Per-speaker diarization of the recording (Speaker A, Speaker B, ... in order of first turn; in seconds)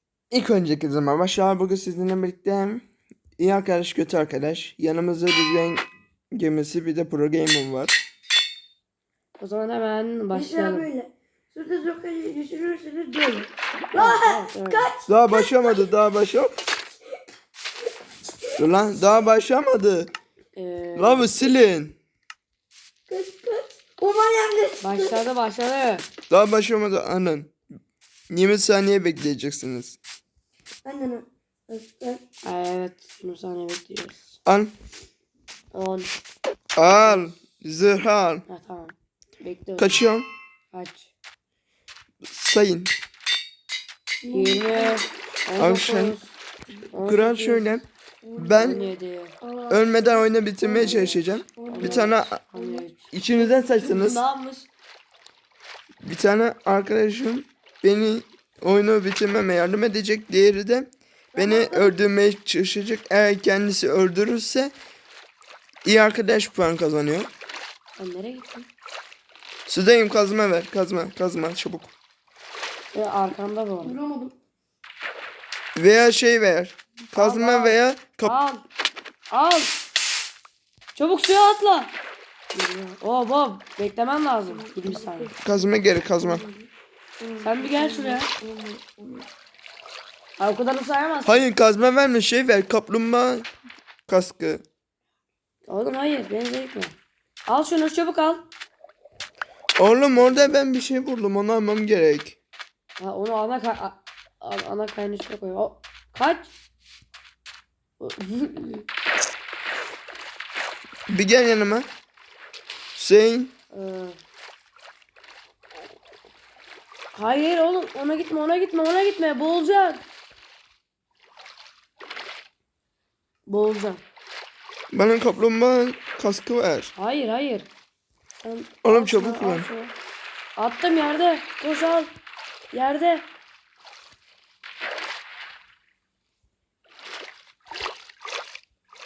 Speaker A: 0.3-2.8, 3.4-8.0, 15.1-16.5, 18.6-20.1, 20.9-21.9, 26.3-27.5, 28.3-30.0, 34.4-34.7, 36.7-38.4, 39.8-40.3, 42.2-42.9, 45.6-46.1, 47.0-47.8, 48.4-48.8, 49.7-52.4, 53.1-54.2, 56.0-64.7, 65.8-67.3, 69.7-71.9, 75.7-78.3, 85.4-86.4, 91.2-93.5, 94.1-94.6, 99.8-102.4, 111.1-111.9, 113.0-113.5, 124.9-126.9, 128.8-129.7
Speaker B: 9.4-10.9, 13.9-14.9, 20.5-21.5, 24.8-26.1, 32.4-34.4, 35.7-36.1, 36.8-37.4, 38.5-40.0, 40.7-41.1, 44.3-46.4, 46.9-47.8, 48.6-49.3, 50.8-54.7, 68.0-68.7, 72.9-74.0, 77.1-78.6, 79.3-79.8, 80.9-81.9, 82.5-85.3, 87.4-88.3, 90.4-91.5, 95.7-98.5, 100.2-100.6, 103.0-106.5, 108.0-108.9, 113.7-114.2, 117.1-120.0, 123.5-124.0, 127.0-127.7, 128.4-129.9, 130.6-132.1, 132.7-133.3
Speaker C: 10.3-15.9, 23.1-25.2, 30.8-32.2, 44.2-45.1, 48.2-52.8, 61.3-62.0, 73.8-74.3, 84.4-89.3